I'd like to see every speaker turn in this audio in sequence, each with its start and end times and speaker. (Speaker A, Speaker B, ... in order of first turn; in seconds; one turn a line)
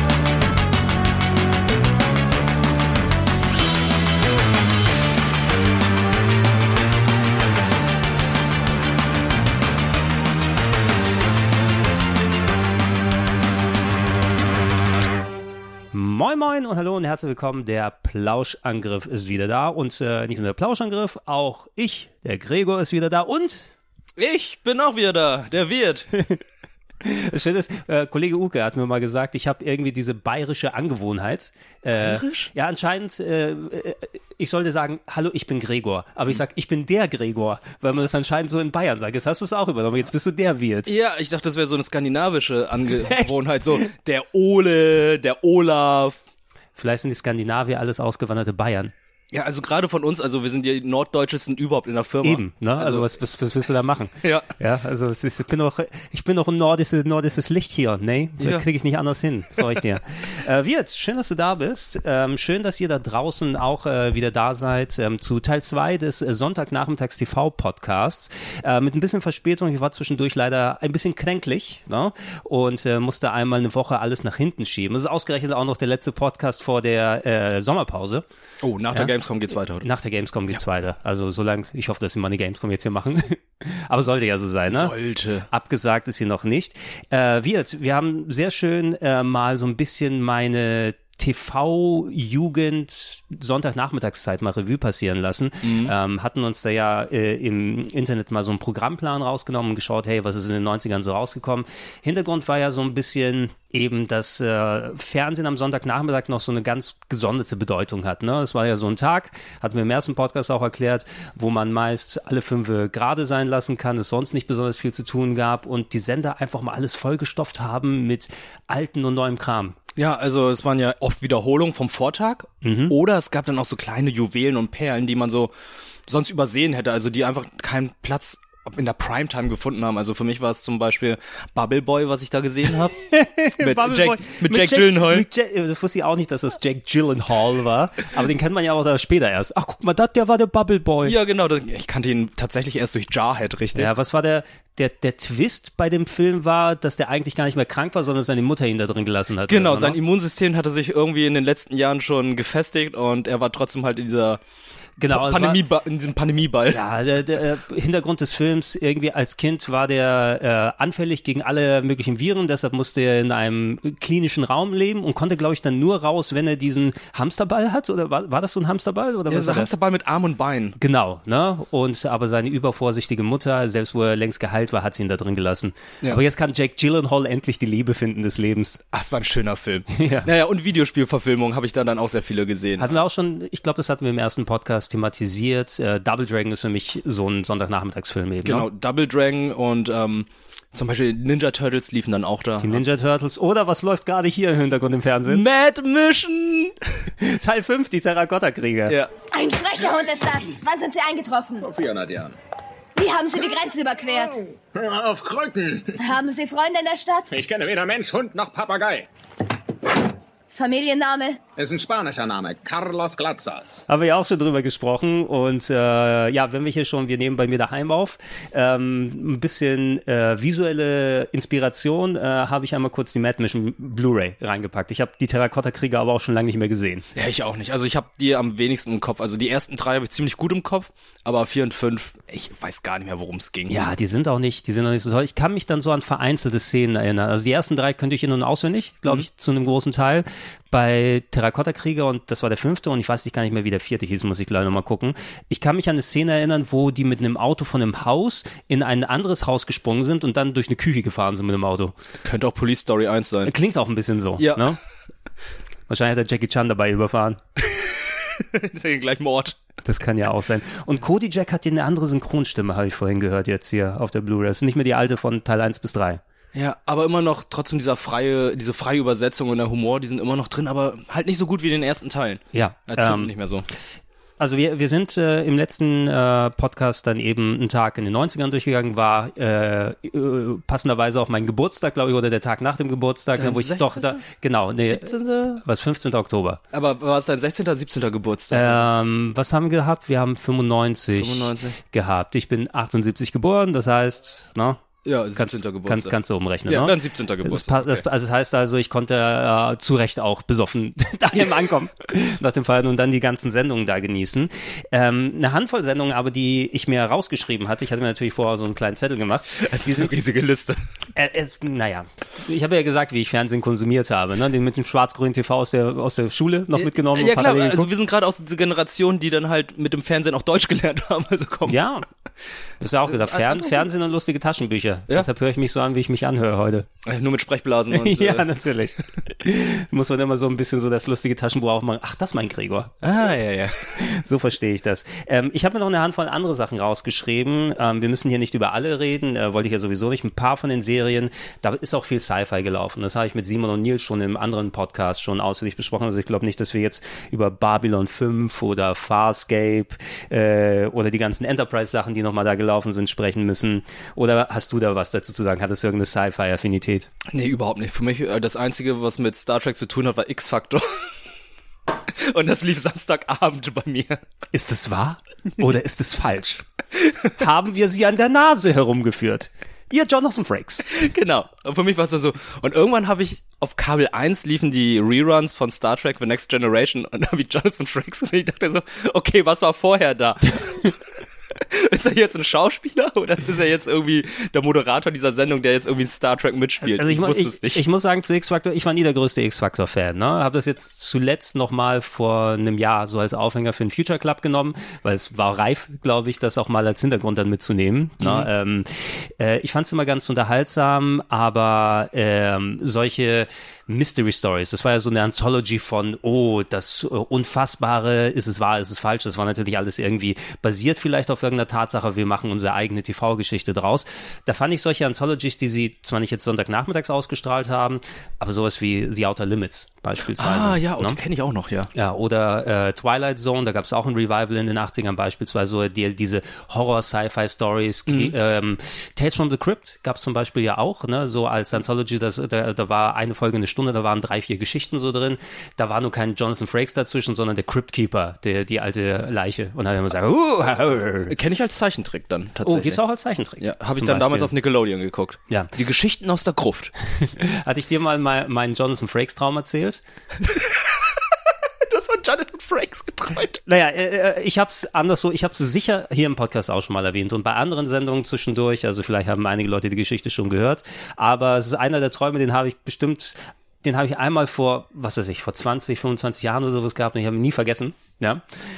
Speaker A: 15.9-23.7
Speaker B: 24.2-26.1
Speaker A: 27.0-40.9
Speaker B: 32.0-32.5
Speaker B: 40.9-46.2
Speaker A: 43.0-43.3
Speaker A: 46.8-48.9
Speaker B: 49.3-53.1
Speaker A: 52.2-78.2
Speaker B: 54.2-54.5
Speaker B: 78.6-79.9
Speaker A: 79.8-84.9
Speaker B: 84.7-85.5
Speaker A: 85.5-119.8
Speaker B: 95.6-95.9
Speaker B: 120.0-125.5
Speaker A: 122.6-122.9
Speaker B: 126.1-132.9
Speaker A: 133.1-141.2
Speaker B: 133.6-135.3
Speaker B: 141.0-143.9
Speaker A: 143.7-150.0
Speaker B: 149.5-154.4
Speaker A: 155.0-155.6
Speaker B: 155.1-156.8
Speaker A: 156.7-169.7
Speaker B: 169.3-170.8
Speaker A: 170.8-178.8
Speaker B: 178.9-183.0
Speaker A: 179.9-180.3
Speaker A: 182.8-188.7
Speaker B: 188.4-192.8
Speaker A: 192.6-195.4
Speaker B: 195.2-196.8
Speaker A: 197.2-199.0
Speaker C: 199.3-201.6
Speaker D: 201.6-202.3
Speaker C: 202.9-204.4
Speaker D: 204.7-206.0
Speaker C: 206.0-207.3
Speaker D: 207.3-209.1
Speaker C: 210.5-211.4
Speaker D: 211.6-213.8
Speaker A: 213.9-227.1
Speaker B: 227.1-233.8
Speaker A: 233.7-251.9
Speaker B: 252.2-253.5
Speaker A: 253.4-254.8
Speaker B: 254.4-254.7
Speaker A: 255.9-257.4
Speaker B: 257.8-259.6
Speaker A: 259.8-266.2
Speaker B: 266.5-273.6
Speaker A: 272.5-273.3
Speaker A: 274.4-286.6
Speaker B: 283.4-284.2
Speaker B: 284.9-285.6
Speaker B: 286.7-288.9
Speaker A: 288.5-294.8
Speaker B: 291.2-291.8
Speaker B: 295.0-296.1
Speaker A: 295.4-310.1
Speaker B: 296.7-298.0
Speaker B: 309.6-310.8
Speaker A: 311.1-317.9
Speaker B: 316.7-321.8
Speaker A: 321.7-322.0
Speaker A: 322.8-326.9
Speaker B: 323.1-323.8
Speaker B: 327.0-328.4
Speaker A: 327.9-333.0
Speaker B: 333.0-333.8
Speaker A: 333.9-357.1
Speaker B: 357.3-361.1
Speaker B: 362.1-364.2
Speaker A: 364.5-366.6
Speaker A: 367.4-370.8
Speaker B: 370.9-380.9
Speaker B: 381.7-387.8
Speaker A: 386.8-421.2
Speaker B: 398.2-398.5
Speaker B: 420.4-421.9
Speaker A: 421.9-441.3
Speaker B: 428.1-428.3
Speaker B: 441.3-443.0
Speaker A: 442.6-444.5
Speaker B: 443.6-446.9
Speaker A: 447.3-450.0
Speaker B: 450.4-450.9
Speaker B: 451.8-453.6
Speaker A: 453.6-468.4